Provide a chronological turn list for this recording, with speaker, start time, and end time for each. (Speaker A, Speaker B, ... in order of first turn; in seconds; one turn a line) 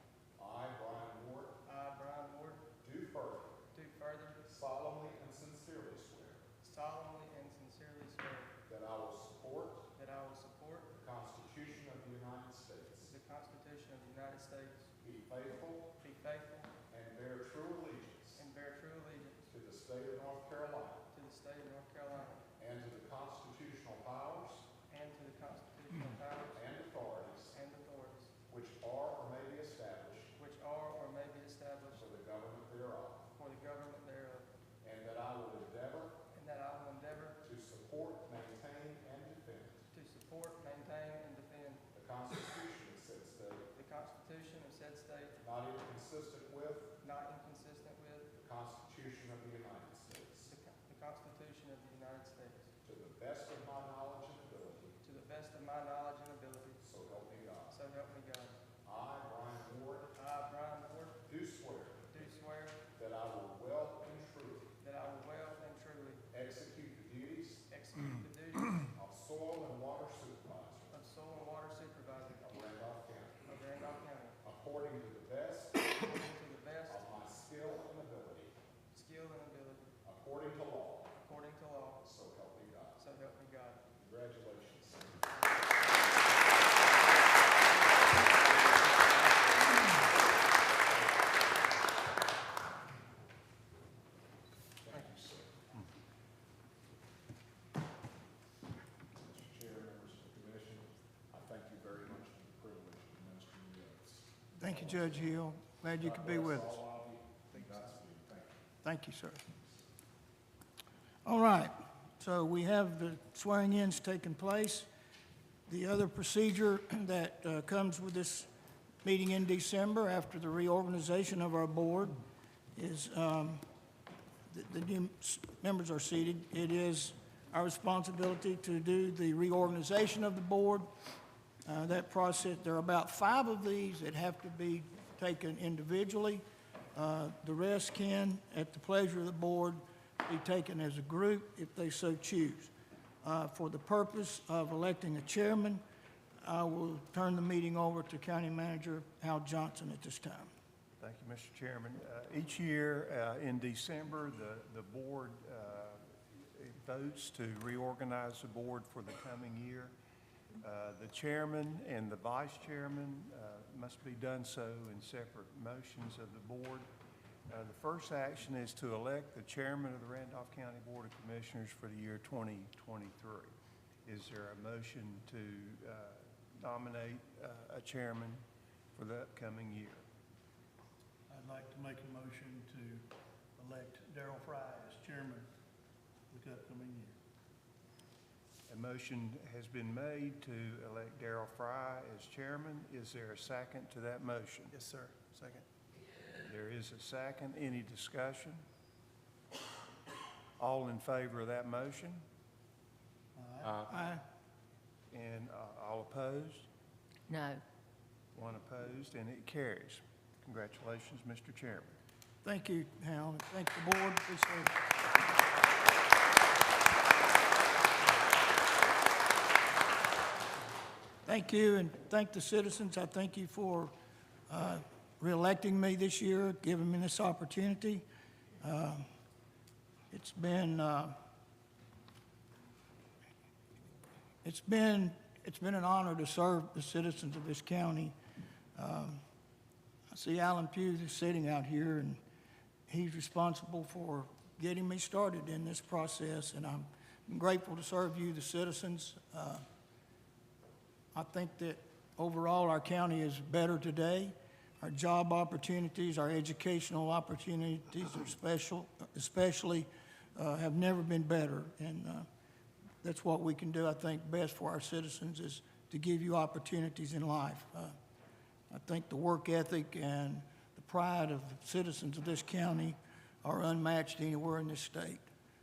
Speaker A: 0.4-1.6
Speaker B: 1.6-2.6
Speaker A: 2.8-3.7
Speaker B: 3.7-4.4
Speaker A: 4.4-6.4
Speaker B: 6.6-8.5
Speaker A: 8.6-9.9
Speaker B: 9.9-10.9
Speaker A: 10.9-13.1
Speaker B: 13.1-14.9
Speaker A: 15.0-15.9
Speaker B: 16.0-16.7
Speaker A: 16.9-18.4
Speaker B: 18.4-19.5
Speaker A: 19.5-21.1
Speaker B: 21.1-22.4
Speaker A: 22.6-24.7
Speaker B: 24.9-26.6
Speaker A: 26.5-27.6
Speaker B: 27.5-28.3
Speaker A: 28.5-30.3
Speaker B: 30.4-32.0
Speaker A: 31.9-33.3
Speaker B: 33.4-34.5
Speaker A: 34.8-36.2
Speaker B: 36.3-37.4
Speaker A: 37.4-39.9
Speaker B: 39.9-41.8
Speaker A: 41.9-43.7
Speaker B: 43.7-45.4
Speaker A: 45.4-46.9
Speaker B: 47.0-48.3
Speaker A: 48.3-50.5
Speaker B: 50.5-52.7
Speaker A: 52.8-55.0
Speaker B: 55.0-56.8
Speaker A: 56.8-57.7
Speaker B: 57.7-58.6
Speaker A: 58.8-60.1
Speaker B: 60.1-61.2
Speaker A: 61.2-62.1
Speaker B: 62.1-62.8
Speaker A: 62.9-64.7
Speaker B: 64.8-66.2
Speaker A: 66.3-67.7
Speaker B: 67.7-68.8
Speaker A: 68.8-71.0
Speaker B: 70.9-72.4
Speaker A: 72.4-73.5
Speaker B: 73.5-74.4
Speaker A: 74.4-75.9
Speaker B: 76.0-77.0
Speaker A: 76.9-78.5
Speaker B: 78.9-79.9
Speaker A: 80.0-81.2
Speaker B: 81.2-82.0
Speaker A: 82.0-83.0
Speaker B: 83.0-83.8
Speaker A: 83.9-85.3
Speaker B: 87.0-87.9
Speaker A: 88.4-89.6
Speaker B: 88.9-89.4
Speaker A: 94.8-95.6
Speaker A: 99.2-105.2
Speaker C: 104.6-106.8
Speaker A: 106.0-108.6
Speaker C: 108.8-109.4
Speaker C: 111.2-114.9
Speaker C: 115.7-118.5
Speaker C: 119.0-122.2
Speaker C: 122.7-123.6
Speaker C: 124.5-130.9
Speaker C: 131.6-136.4
Speaker C: 136.9-142.7
Speaker C: 143.2-145.8
Speaker C: 146.4-150.5
Speaker D: 151.0-159.9
Speaker D: 160.6-166.9
Speaker D: 167.5-173.5
Speaker D: 174.0-178.4
Speaker D: 178.9-180.0
Speaker E: 181.3-183.1
Speaker E: 183.6-185.5
Speaker E: 186.3-187.1
Speaker D: 188.7-194.8
Speaker D: 196.4-198.6
Speaker D: 200.6-202.2
Speaker C: 203.8-204.2
Speaker D: 205.1-206.7
Speaker D: 208.3-212.0
Speaker C: 212.4-214.7
Speaker C: 221.2-223.9
Speaker C: 224.5-228.0
Speaker C: 228.6-229.0
Speaker C: 230.1-231.1
Speaker C: 234.4-238.2
Speaker C: 238.7-239.2
Speaker C: 240.1-242.2
Speaker C: 242.9-249.6
Speaker C: 251.1-262.3
Speaker C: 263.0-267.9
Speaker C: 268.7-275.2